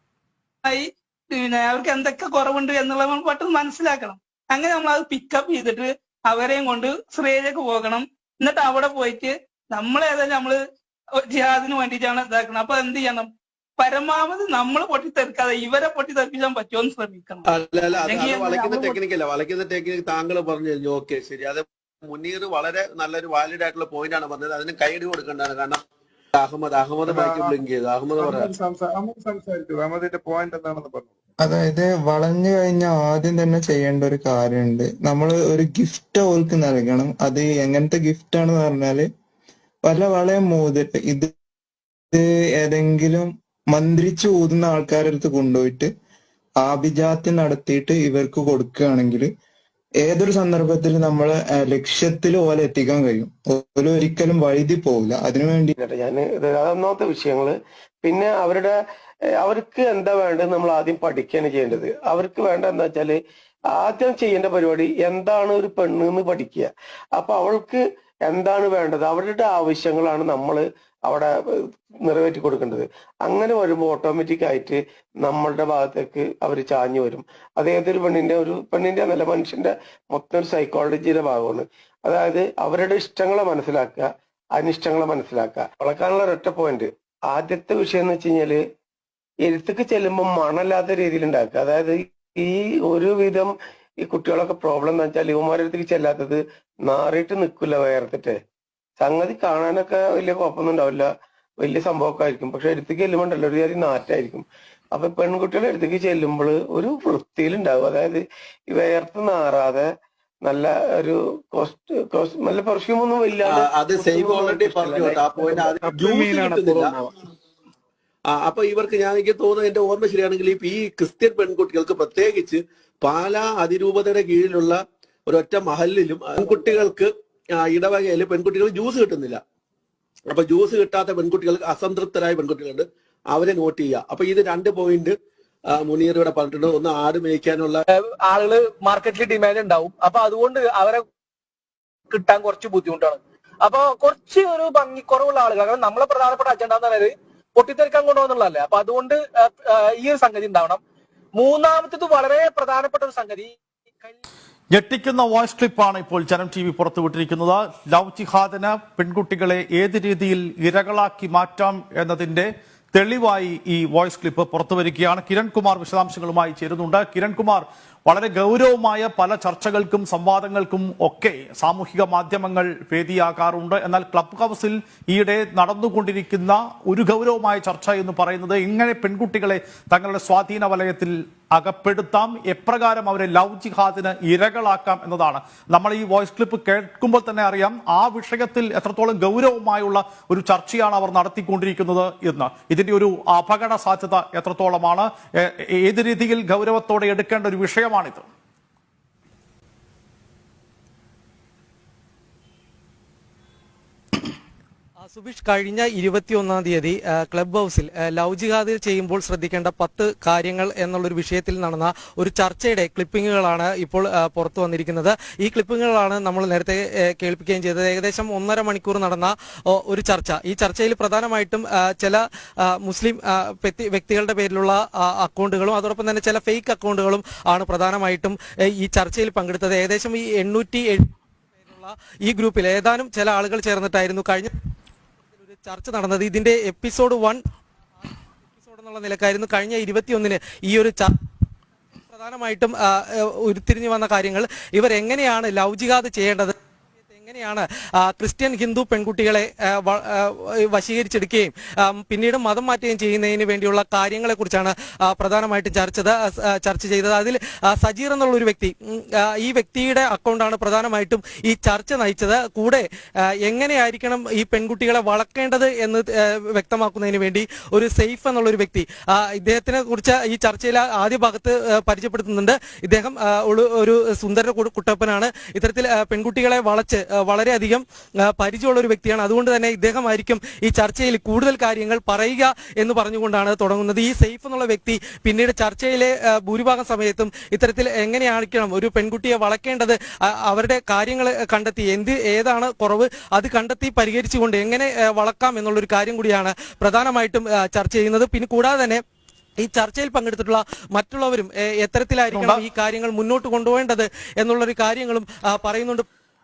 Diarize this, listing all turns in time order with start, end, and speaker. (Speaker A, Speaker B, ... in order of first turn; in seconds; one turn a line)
Speaker A: 0.7-10.6
Speaker A: 11.2-17.5
Speaker B: 17.5-25.8
Speaker A: 18.0-19.0
Speaker B: 26.4-28.5
Speaker C: 27.1-27.6
Speaker C: 28.2-31.1
Speaker D: 31.4-39.1
Speaker D: 39.9-41.3
Speaker D: 42.1-45.9
Speaker D: 46.6-49.3
Speaker D: 50.0-55.8
Speaker E: 55.8-58.8
Speaker E: 59.4-63.2
Speaker E: 63.7-71.3
Speaker E: 72.0-88.6
Speaker E: 89.5-98.4
Speaker E: 99.0-101.1
Speaker E: 101.6-109.9
Speaker E: 110.4-115.8
Speaker B: 113.5-117.0
Speaker C: 116.1-116.9
Speaker B: 118.3-129.4
Speaker B: 130.3-135.2
Speaker B: 135.7-137.8
Speaker F: 137.9-141.1
Speaker F: 142.1-150.8
Speaker F: 151.4-154.2
Speaker G: 154.7-198.3
Speaker H: 205.0-234.5
Speaker H: 235.4-237.4
Speaker H: 238.0-241.1
Speaker H: 242.1-246.5
Speaker H: 247.1-262.9
Speaker H: 263.4-299.0
Speaker H: 299.6-306.1
Speaker G: 302.3-302.6